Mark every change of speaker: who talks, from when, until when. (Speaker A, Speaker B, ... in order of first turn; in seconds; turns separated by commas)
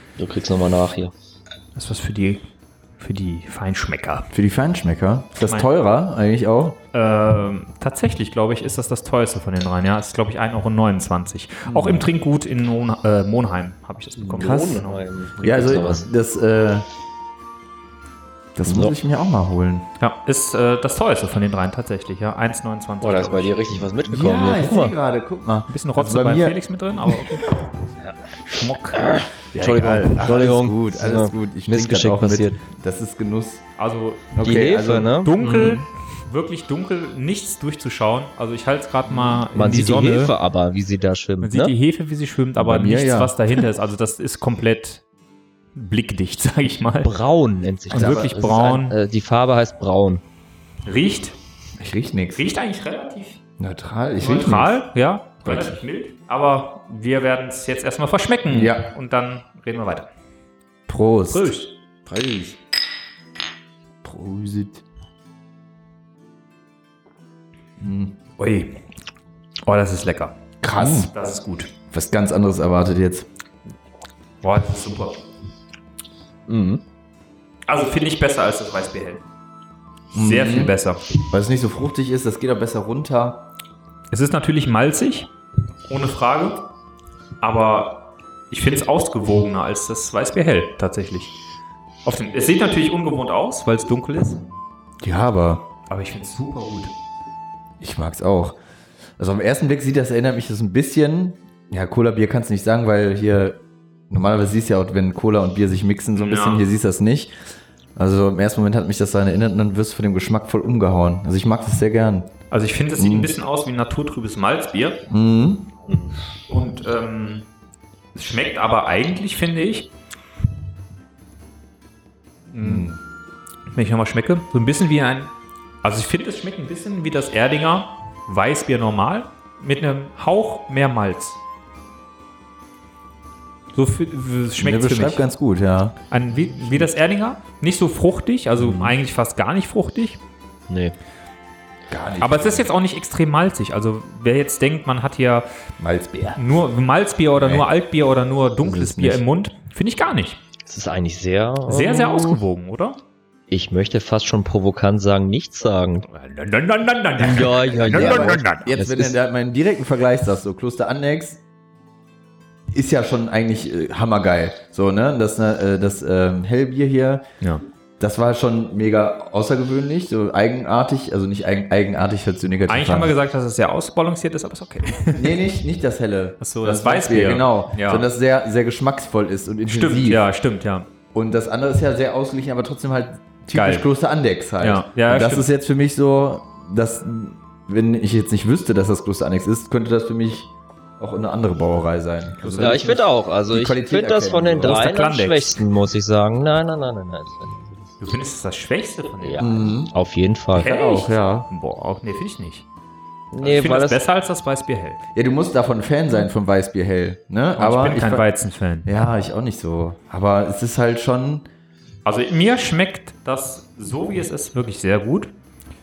Speaker A: 0.2-1.1, Speaker B: 1.7-2.4, Speaker B: 3.0-4.3, Speaker C: 4.3-6.8, Speaker B: 6.9-16.0, Speaker C: 11.7-12.1, Speaker A: 14.2-16.1, Speaker C: 14.3-14.8, Speaker C: 15.4-16.9, Speaker C: 18.5-19.9, Speaker A: 18.6-18.9, Speaker B: 20.0-23.8, Speaker A: 23.0-24.9, Speaker C: 24.1-27.4, Speaker B: 25.7-27.5, Speaker B: 28.4-29.1, Speaker A: 28.9-32.6, Speaker C: 29.5-33.6, Speaker B: 33.8-34.3, Speaker C: 34.3-35.8, Speaker A: 34.4-35.4, Speaker B: 35.2-40.3, Speaker C: 39.0-39.5, Speaker A: 39.5-41.7, Speaker B: 41.4-45.0, Speaker C: 42.6-43.6, Speaker B: 45.8-47.1, Speaker A: 47.0-50.2, Speaker B: 47.9-49.0, Speaker C: 47.9-48.3, Speaker B: 50.8-51.4, Speaker C: 51.8-52.4, Speaker B: 52.3-53.4, Speaker C: 53.6-54.8, Speaker B: 54.2-60.1, Speaker C: 55.4-55.8, Speaker C: 58.5-58.9, Speaker C: 60.9-61.5, Speaker B: 61.3-61.7, Speaker C: 62.0-62.6, Speaker C: 64.0-64.8, Speaker C: 67.8-68.2, Speaker B: 68.4-68.8, Speaker B: 69.6-71.7, Speaker C: 70.6-71.1, Speaker C: 71.9-73.3, Speaker B: 74.4-75.2, Speaker A: 76.5-76.8, Speaker B: 77.7-79.2, Speaker C: 80.1-80.7, Speaker B: 80.1-81.1, Speaker C: 81.3-83.5, Speaker B: 84.1-85.3, Speaker B: 85.9-86.7, Speaker B: 87.4-91.3, Speaker B: 92.0-94.4, Speaker C: 95.0-95.7, Speaker B: 95.9-96.9, Speaker C: 97.8-98.6, Speaker C: 99.2-107.3, Speaker B: 106.1-106.7, Speaker C: 108.0-112.3, Speaker B: 112.5-115.0, Speaker C: 113.0-113.3, Speaker C: 115.1-115.7, Speaker A: 115.9-116.2, Speaker B: 116.5-117.5, Speaker B: 118.1-119.9, Speaker B: 122.5-122.9, Speaker C: 122.6-123.0, Speaker B: 123.7-131.4, Speaker B: 133.7-135.3, Speaker C: 134.6-136.0, Speaker B: 136.1-140.2, Speaker A: 138.6-138.9, Speaker A: 140.7-140.9, Speaker C: 141.9-142.7, Speaker B: 142.2-145.5, Speaker C: 145.8-146.4, Speaker B: 146.3-150.4, Speaker C: 147.3-147.7, Speaker A: 148.7-149.2, Speaker A: 150.7-152.4, Speaker B: 151.7-153.0, Speaker A: 153.5-156.1, Speaker B: 156.1-158.7, Speaker A: 157.2-159.2, Speaker C: 157.9-161.4, Speaker C: 162.7-167.2, Speaker C: 168.0-173.1, Speaker B: 172.7-175.3, Speaker C: 175.1-180.2, Speaker B: 176.4-178.1, Speaker B: 179.7-180.9, Speaker C: 181.1-194.8, Speaker B: 183.5-183.8, Speaker B: 184.6-185.5, Speaker B: 192.4-192.9, Speaker A: 192.6-197.8, Speaker B: 194.6-195.6, Speaker B: 198.0-199.6, Speaker A: 199.2-200.8, Speaker C: 199.4-199.9, Speaker C: 200.5-201.5, Speaker B: 200.5-202.7, Speaker A: 203.3-204.0, Speaker B: 203.4-205.0, Speaker C: 205.1-208.3, Speaker B: 207.6-208.9, Speaker C: 208.8-211.4, Speaker B: 212.0-215.3